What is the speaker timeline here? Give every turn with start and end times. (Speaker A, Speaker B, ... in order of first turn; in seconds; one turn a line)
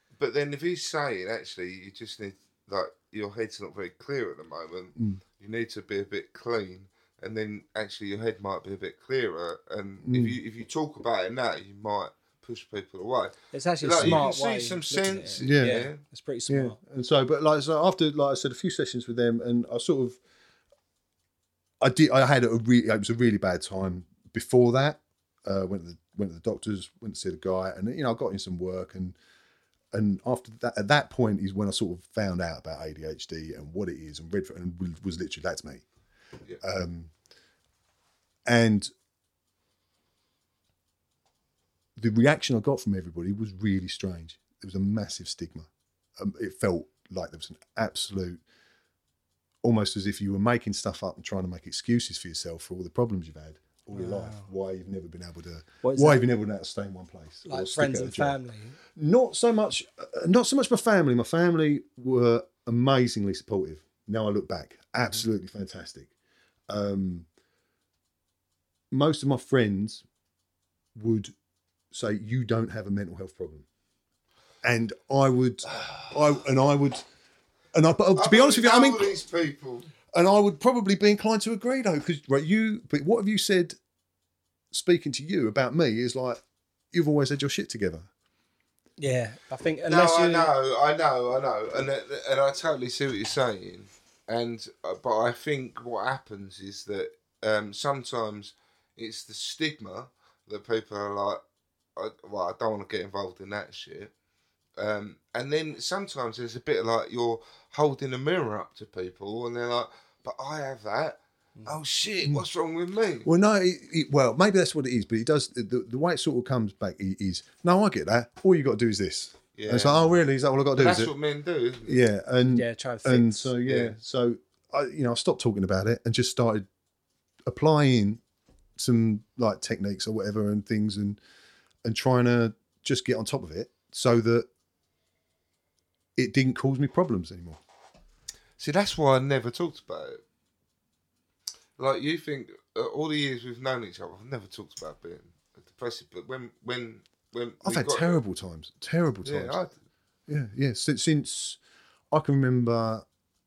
Speaker A: 0.2-16.0
Speaker B: 5.0-5.2
Speaker B: 10.0-10.4
Speaker C: 13.5-16.8
Speaker B: 15.4-15.8
Speaker B: 16.5-20.2
Speaker B: 21.8-29.2
Speaker B: 29.9-35.8
Speaker B: 36.6-37.1
Speaker B: 38.5-38.9
Speaker B: 42.0-48.4
Speaker B: 49.6-58.4
Speaker C: 53.9-54.5
Speaker C: 55.8-56.3
Speaker C: 57.5-58.8
Speaker B: 59.0-66.1
Speaker B: 66.7-67.3
Speaker B: 68.9-70.0
Speaker B: 71.0-71.3
Speaker B: 71.9-73.7
Speaker B: 74.6-77.0
Speaker B: 77.7-79.2
Speaker A: 78.2-79.9
Speaker B: 80.1-83.8
Speaker B: 84.7-88.1
Speaker C: 89.0-90.5
Speaker A: 89.9-101.4
Speaker A: 102.0-104.1
Speaker A: 104.8-113.3
Speaker B: 113.2-121.1
Speaker A: 119.5-120.1
Speaker A: 120.8-122.0
Speaker B: 121.9-126.7
Speaker C: 122.5-123.5
Speaker A: 123.7-124.0
Speaker B: 127.5-128.2
Speaker B: 128.8-131.2
Speaker B: 131.8-134.5
Speaker B: 136.2-137.6
Speaker A: 138.6-140.2
Speaker A: 141.8-148.2
Speaker B: 147.6-149.7
Speaker A: 149.2-149.8
Speaker B: 150.3-151.6
Speaker B: 152.1-153.1